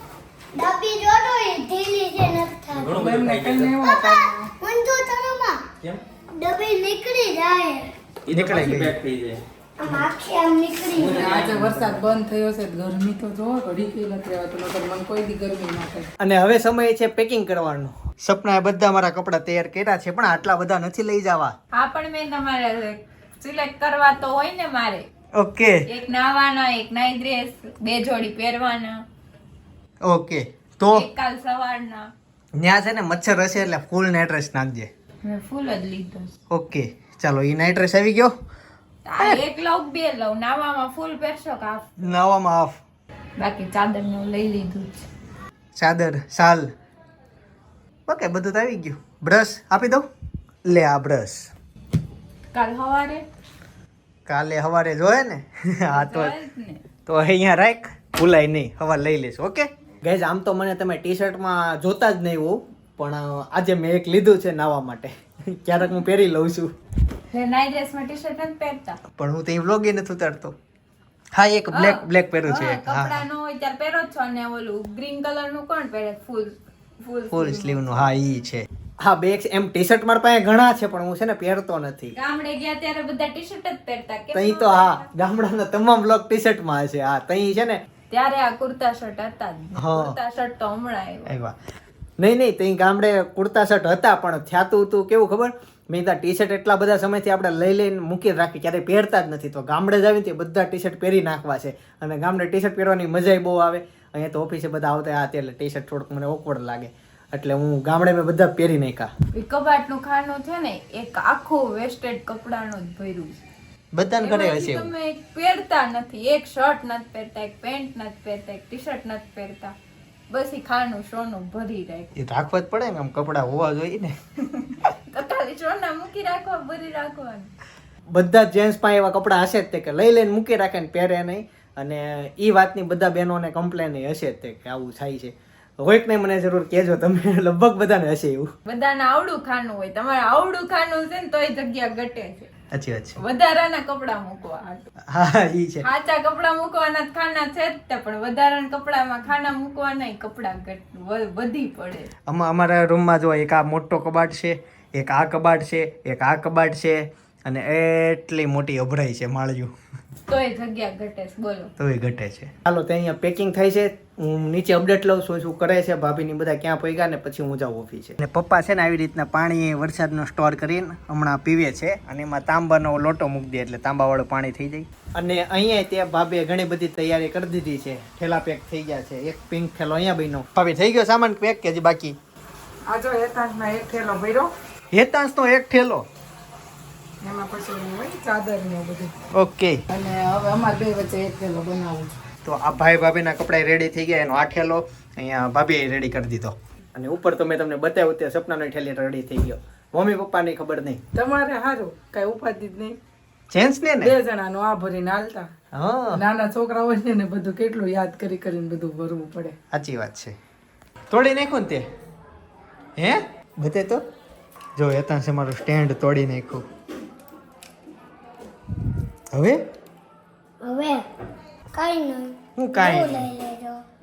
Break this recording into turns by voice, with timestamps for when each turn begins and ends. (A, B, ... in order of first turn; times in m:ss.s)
0:00.5-0:03.0 A
0:02.7-0:03.8 B
0:03.0-0:04.5 C
0:03.8-0:05.6 A
0:06.4-0:07.9 A
0:08.3-0:09.4 B
0:08.3-0:08.9 D
0:09.8-0:11.3 A
0:10.9-0:12.0 B
0:11.2-0:16.1 C
0:16.2-0:21.5 D
0:21.7-0:25.1 E
0:25.4-0:25.8 D
0:25.9-0:29.0 E
0:30.0-0:31.1 D
0:30.9-0:32.1 E
0:32.6-0:34.9 D
0:35.2-0:36.3 E
0:36.5-0:38.3 D
0:39.0-0:41.9 E
0:42.0-0:42.8 D
0:43.4-0:44.9 E
0:45.8-0:46.7 D
0:48.1-0:50.1 D
0:50.6-0:51.5 D
0:52.5-0:53.2 E
0:54.3-0:56.3 D
0:55.9-0:56.8 E
0:57.0-1:06.7 D
1:07.3-1:09.0 E
1:09.2-1:10.5 D
1:11.4-1:13.2 D
1:11.7-1:18.0 E
1:17.3-1:22.1 D
1:22.2-1:25.1 E
1:24.3-1:27.8 D
1:28.1-1:31.3 E
1:29.8-1:30.2 D
1:31.3-1:31.5 D
1:32.2-1:49.1 D
1:49.3-1:53.4 E
1:53.9-1:54.9 D
1:54.2-1:59.8 E
2:00.3-2:02.1 E
2:02.2-2:04.1 D
2:04.5-2:07.5 E
2:08.1-2:18.5 D
2:18.6-2:22.5 E
2:22.7-2:23.2 D
2:23.2-2:24.8 E
2:25.1-2:25.9 D
2:25.8-2:32.1 E
2:32.3-2:39.7 D
2:40.3-2:41.7 E
2:41.8-3:02.2 D
3:02.9-3:04.5 C
3:04.9-3:06.0 D
3:07.2-3:09.2 C
3:09.3-3:09.8 D
3:09.9-3:12.1 C
3:12.4-3:21.0 D
3:21.1-3:23.0 C
3:23.5-3:24.2 D
3:24.0-3:25.5 C
3:25.7-3:26.2 D
3:26.1-3:29.6 C
3:29.7-3:30.3 D
3:31.1-3:31.9 D
3:33.0-3:34.0 D
3:34.8-3:36.6 D
3:39.3-3:39.6 D
3:40.6-3:41.0 A
3:41.7-3:43.8 A
3:42.6-3:43.3 D